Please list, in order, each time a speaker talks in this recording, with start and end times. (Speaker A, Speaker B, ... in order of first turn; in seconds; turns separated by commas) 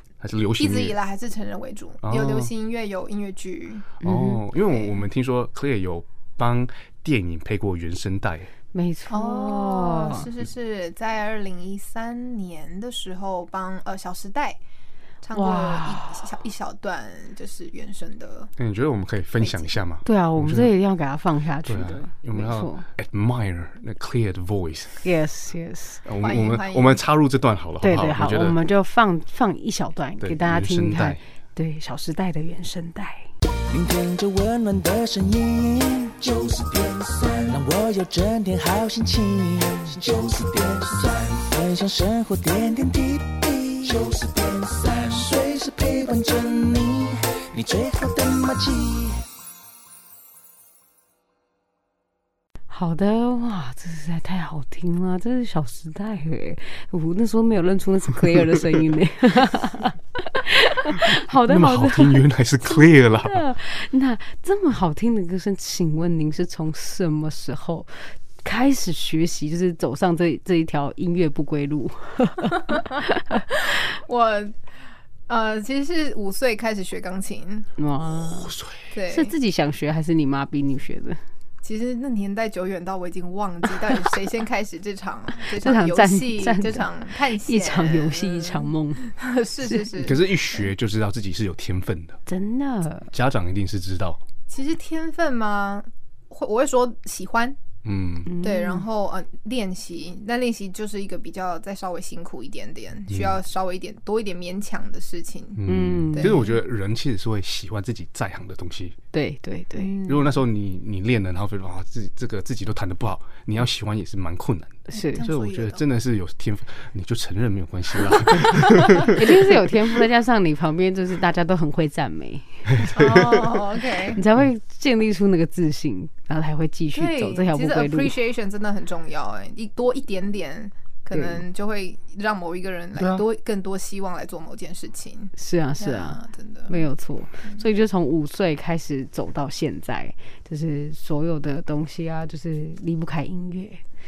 Speaker A: 0.2-0.9, Speaker B: 0.6-4.0, Speaker A: 2.0-2.5, Speaker C: 4.0-4.4, Speaker A: 4.0-8.5, Speaker C: 8.7-10.3, Speaker B: 9.1-14.6, Speaker B: 15.2-18.5, Speaker C: 15.3-16.3, Speaker A: 18.6-20.7, Speaker B: 19.4-19.8, Speaker C: 20.1-22.8, Speaker A: 21.6-25.1, Speaker C: 25.0-26.0, Speaker A: 26.1-28.6, Speaker B: 26.2-27.0, Speaker C: 27.8-33.3, Speaker A: 30.2-31.2, Speaker D: 33.7-49.2, Speaker C: 52.7-73.5, Speaker A: 61.5-63.4, Speaker B: 73.7-74.5, Speaker B: 75.3-77.7, Speaker C: 77.8-78.5, Speaker A: 78.2-78.8, Speaker B: 78.9-79.3, Speaker C: 79.1-81.2, Speaker B: 81.6-90.6, Speaker C: 85.5-86.9, Speaker C: 87.4-89.0, Speaker A: 90.0-92.2, Speaker C: 92.3-93.1, Speaker A: 93.1-94.2, Speaker B: 94.5-97.6, Speaker A: 97.8-98.3, Speaker C: 98.2-98.9, Speaker B: 98.4-106.6, Speaker A: 103.1-103.4, Speaker A: 105.6-109.0, Speaker C: 105.6-106.4, Speaker C: 109.1-109.9, Speaker B: 109.8-110.3, Speaker A: 110.1-119.3, Speaker C: 114.9-115.2, Speaker B: 115.0-115.8, Speaker B: 118.3-119.0, Speaker C: 119.1-122.9, Speaker A: 122.7-123.5, Speaker B: 122.9-124.2, Speaker C: 124.1-128.1, Speaker B: 126.9-136.8, Speaker C: 131.1-131.4, Speaker A: 133.0-133.2, Speaker C: 135.4-143.8